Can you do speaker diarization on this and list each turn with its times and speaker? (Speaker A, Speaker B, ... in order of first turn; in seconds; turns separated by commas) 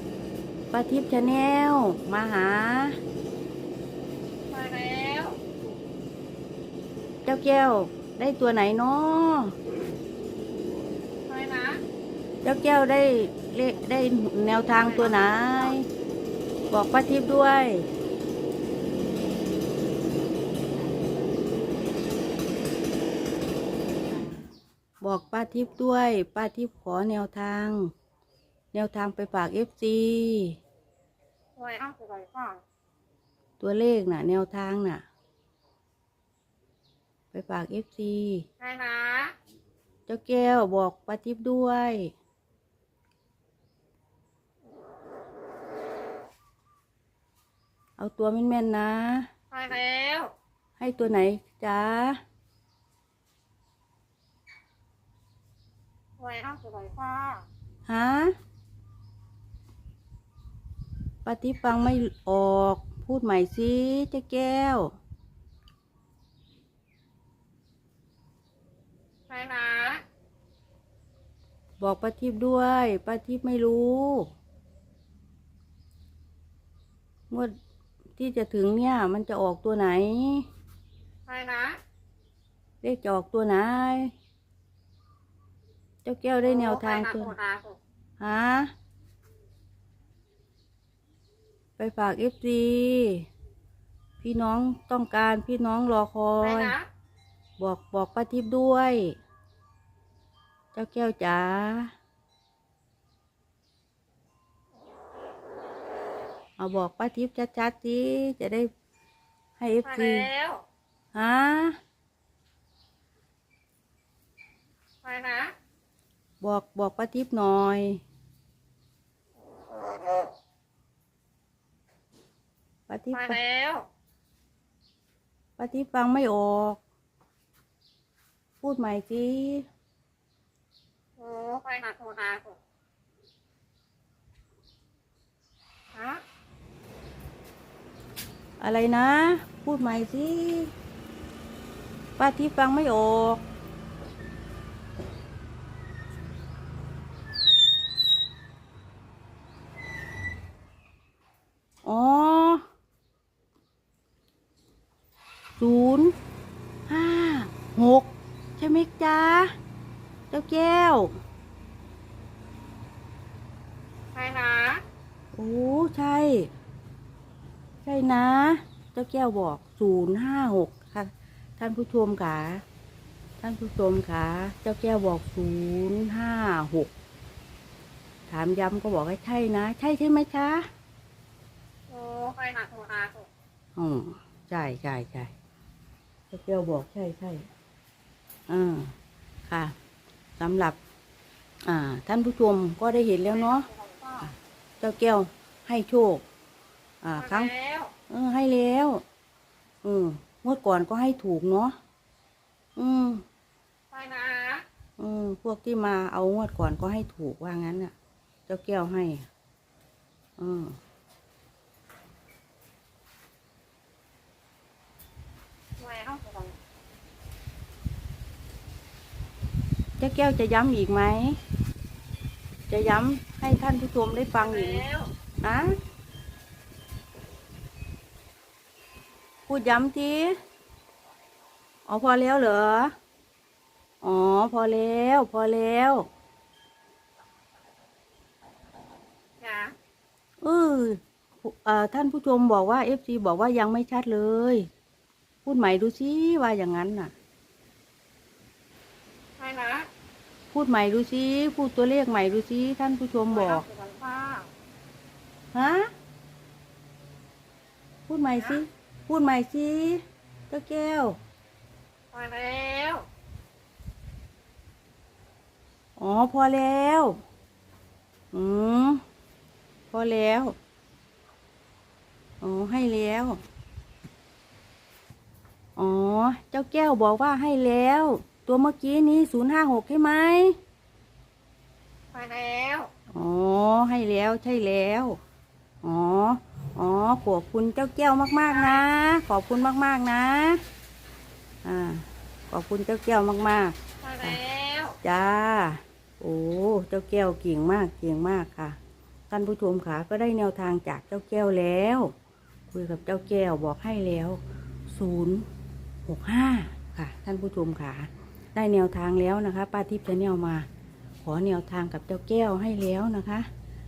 Speaker A: 0.7-3.0, Speaker B: 4.5-5.4, Speaker A: 7.2-9.6, Speaker B: 11.3-11.8, Speaker A: 12.4-15.9, Speaker B: 14.8-15.7, Speaker A: 16.7-17.9, Speaker A: 25.0-27.9, Speaker A: 28.7-30.6, Speaker B: 31.6-32.6, Speaker A: 33.6-35.0, Speaker A: 37.3-38.5, Speaker B: 38.6-39.3, Speaker A: 40.1-42.1, Speaker A: 48.0-49.3, Speaker B: 49.5-50.3, Speaker A: 50.8-52.2, Speaker B: 56.2-57.4, Speaker A: 57.9-58.3, Speaker A: 61.2-64.9, Speaker B: 69.3-70.0, Speaker A: 71.8-74.3, Speaker A: 78.2-80.5, Speaker B: 81.3-81.8, Speaker A: 82.8-84.1, Speaker A: 86.0-87.3, Speaker B: 86.4-87.8, Speaker A: 88.2-88.7, Speaker A: 91.8-93.3, Speaker A: 94.2-96.8, Speaker B: 96.4-96.9, Speaker A: 97.6-99.2, Speaker A: 100.7-101.9, Speaker A: 106.6-108.7, Speaker A: 109.6-110.3, Speaker B: 109.8-110.6, Speaker A: 111.1-111.8, Speaker B: 115.0-115.5, Speaker A: 116.4-118.0, Speaker A: 122.9-123.4, Speaker B: 123.1-123.9, Speaker A: 125.6-126.8, Speaker A: 128.6-129.7, Speaker B: 131.2-132.6, Speaker B: 135.9-136.2, Speaker A: 138.6-140.7, Speaker A: 142.2-143.4, Speaker A: 151.8-152.7, Speaker A: 155.6-156.1, Speaker A: 156.9-159.5, Speaker A: 160.3-161.2, Speaker B: 164.1-164.8, Speaker A: 165.3-166.5, Speaker A: 167.8-172.6, Speaker A: 173.4-176.9, Speaker A: 178.3-180.7, Speaker B: 181.9-183.3, Speaker A: 183.8-185.3, Speaker A: 186.3-187.5, Speaker A: 188.5-188.9, Speaker A: 189.5-189.8, Speaker A: 190.4-190.8, Speaker A: 191.7-193.7, Speaker B: 193.5-194.3, Speaker A: 194.2-196.2, Speaker A: 197.0-197.5, Speaker B: 197.2-197.9, Speaker A: 198.1-199.0, Speaker A: 199.8-201.8, Speaker A: 202.8-203.2, Speaker B: 203.9-204.6, Speaker A: 205.0-207.9, Speaker A: 208.5-209.3, Speaker A: 210.4-210.8, Speaker B: 215.8-216.6, Speaker A: 220.0-221.4, Speaker A: 222.7-224.8, Speaker B: 224.4-225.1, Speaker A: 225.4-225.7, Speaker A: 229.5-230.4, Speaker A: 231.9-232.9, Speaker A: 234.0-236.0, Speaker B: 239.4-239.7, Speaker A: 240.4-244.7, Speaker A: 245.4-247.1, Speaker B: 249.4-249.9, Speaker A: 250.5-253.7, Speaker B: 253.3-254.5, Speaker A: 255.5-255.9, Speaker A: 258.1-261.2, Speaker B: 262.1-263.1, Speaker A: 266.0-267.2, Speaker A: 268.3-269.0, Speaker A: 269.9-270.6, Speaker A: 272.4-273.4, Speaker A: 275.8-280.6, Speaker B: 282.1-282.9, Speaker A: 283.1-285.2, Speaker A: 285.8-290.6, Speaker A: 291.6-294.4, Speaker B: 294.0-295.0, Speaker A: 295.0-298.8, Speaker A: 299.3-302.1, Speaker A: 302.7-305.4, Speaker A: 306.1-310.7, Speaker A: 311.2-313.5